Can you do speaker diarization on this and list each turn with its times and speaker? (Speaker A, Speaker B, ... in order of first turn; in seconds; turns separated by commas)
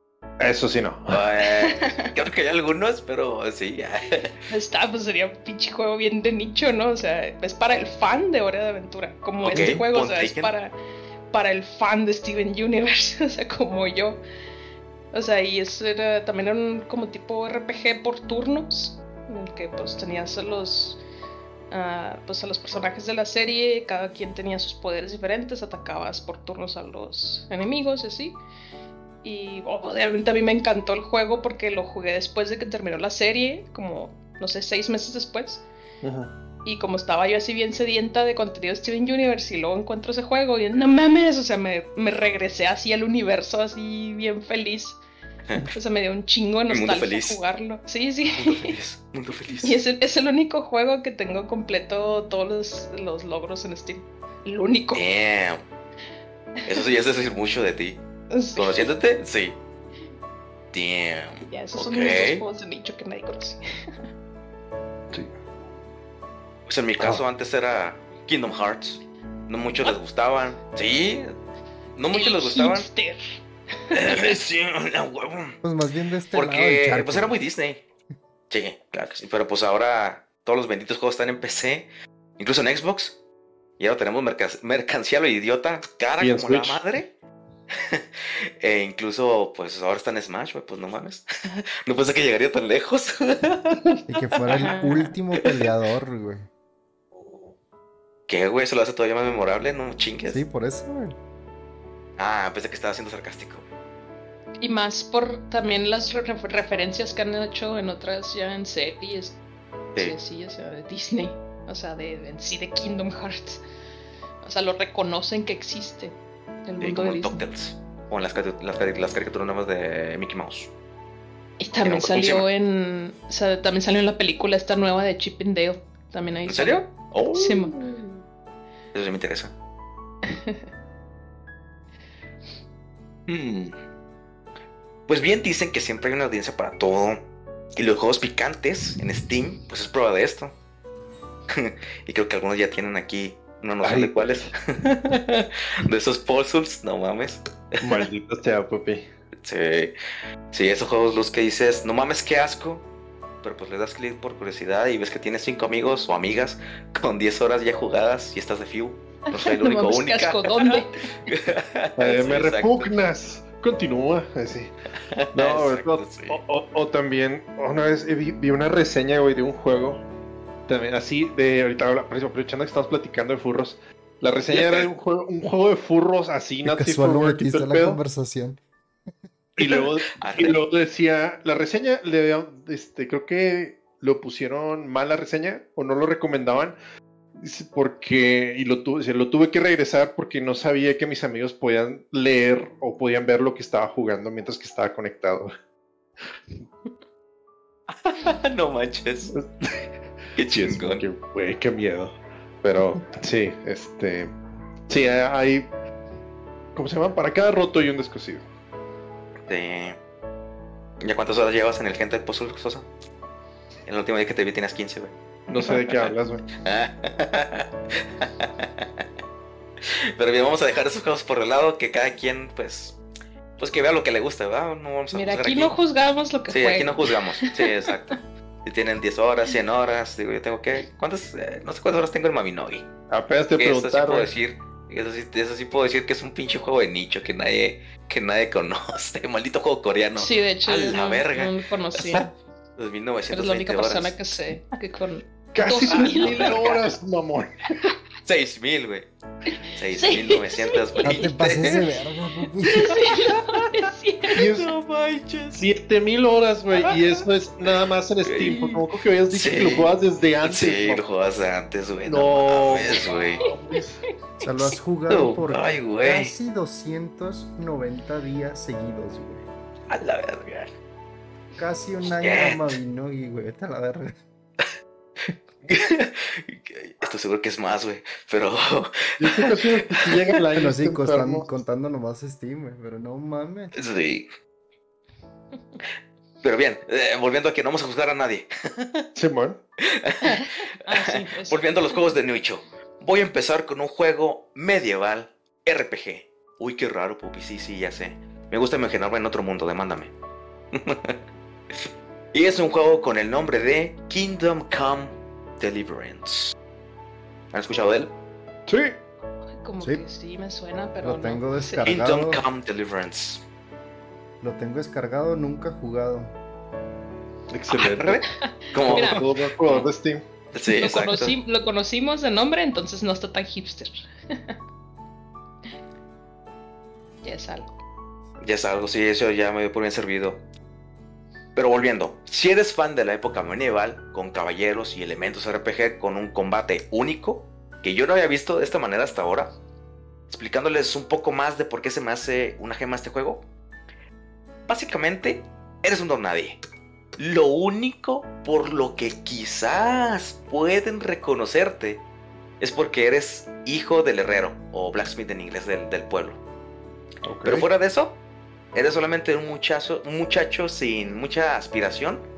Speaker A: 0.4-1.2, Speaker B: 1.1-4.3, Speaker C: 1.4-2.1, Speaker C: 4.5-10.7, Speaker B: 9.4-10.5, Speaker A: 9.5-9.8, Speaker C: 11.3-14.2, Speaker C: 15.1-21.0, Speaker C: 21.7-28.4, Speaker C: 29.2-35.6, Speaker A: 36.0-36.3, Speaker C: 36.6-45.0, Speaker C: 45.7-48.8, Speaker B: 46.7-47.4, Speaker B: 48.3-49.8, Speaker C: 49.6-55.0, Speaker B: 54.9-55.6, Speaker B: 56.6-58.0, Speaker C: 58.3-58.9, Speaker B: 58.5-59.6, Speaker B: 60.7-62.4, Speaker C: 61.4-63.6, Speaker B: 66.7-71.3, Speaker B: 72.0-72.8, Speaker C: 72.1-73.4, Speaker B: 73.9-75.5, Speaker C: 73.9-74.3, Speaker D: 75.6-77.4, Speaker B: 76.3-77.8, Speaker B: 78.5-81.9, Speaker B: 82.4-83.1, Speaker B: 83.8-87.1, Speaker A: 86.2-86.8, Speaker B: 88.6-94.7, Speaker D: 94.1-96.5, Speaker C: 94.5-95.1, Speaker B: 98.3-100.4, Speaker D: 100.2-101.2, Speaker B: 102.2-103.7, Speaker C: 104.6-109.4, Speaker C: 110.0-113.6, Speaker C: 114.4-117.4, Speaker B: 116.8-120.7, Speaker C: 121.6-128.2, Speaker B: 121.8-122.4, Speaker B: 126.5-127.8, Speaker B: 128.9-129.5, Speaker C: 130.2-130.6, Speaker B: 133.3-133.7, Speaker B: 135.1-137.2, Speaker B: 137.8-140.5, Speaker B: 141.5-147.4, Speaker A: 143.8-144.5, Speaker A: 147.8-149.1, Speaker B: 149.4-149.9, Speaker B: 150.5-152.8, Speaker B: 153.4-160.7, Speaker C: 159.3-161.0, Speaker B: 161.3-162.9, Speaker A: 162.0-164.7, Speaker B: 165.1-166.4, Speaker A: 165.3-170.1, Speaker A: 170.7-178.0, Speaker B: 174.5-174.9, Speaker D: 176.7-178.6, Speaker A: 179.6-186.8, Speaker B: 179.6-180.6, Speaker A: 187.3-195.5, Speaker B: 197.9-199.3, Speaker A: 199.3-199.8, Speaker B: 200.3-201.0, Speaker A: 200.4-204.3, Speaker A: 204.9-205.7, Speaker A: 206.7-208.4, Speaker B: 209.5-210.0, Speaker B: 211.0-212.9, Speaker B: 213.8-219.0, Speaker A: 215.5-216.4, Speaker B: 219.8-223.0, Speaker B: 223.6-225.7, Speaker C: 225.1-227.7, Speaker B: 226.5-232.8, Speaker A: 233.1-234.3, Speaker B: 233.6-242.2, Speaker C: 240.2-242.3, Speaker B: 242.8-244.2, Speaker C: 243.3-246.8, Speaker A: 245.5-247.5, Speaker B: 245.9-246.7, Speaker B: 248.2-249.1, Speaker B: 249.7-251.8, Speaker C: 249.9-251.2, Speaker D: 251.0-253.0, Speaker C: 252.6-254.4, Speaker B: 252.9-253.8, Speaker A: 254.3-254.7, Speaker B: 254.3-255.7, Speaker A: 255.5-261.0, Speaker B: 256.8-263.5, Speaker A: 262.1-264.0, Speaker D: 264.4-269.4, Speaker B: 264.4-266.3, Speaker B: 269.9-270.7, Speaker D: 271.6-274.1, Speaker B: 272.1-272.7, Speaker B: 275.6-280.3, Speaker A: 279.2-281.5, Speaker D: 280.5-283.7, Speaker B: 283.7-284.2, Speaker B: 286.4-289.1, Speaker A: 289.1-289.6, Speaker B: 289.8-300.1, Speaker C: 290.2-292.1, Speaker B: 300.7-301.2, Speaker B: 301.7-306.6, Speaker B: 307.5-308.1, Speaker A: 308.7-309.0, Speaker C: 309.6-311.9, Speaker D: 311.0-312.4, Speaker B: 311.9-313.4, Speaker D: 314.4-316.3, Speaker A: 317.5-318.2, Speaker B: 317.7-319.9, Speaker C: 318.4-319.2, Speaker A: 318.9-320.2, Speaker B: 320.5-321.4, Speaker C: 320.6-324.6, Speaker C: 327.2-327.7, Speaker B: 328.4-330.4, Speaker B: 331.5-339.5, Speaker B: 340.3-343.4, Speaker B: 344.7-346.6, Speaker B: 347.2-352.0, Speaker B: 352.6-356.4, Speaker A: 357.2-357.7, Speaker B: 357.4-358.1, Speaker B: 358.7-362.2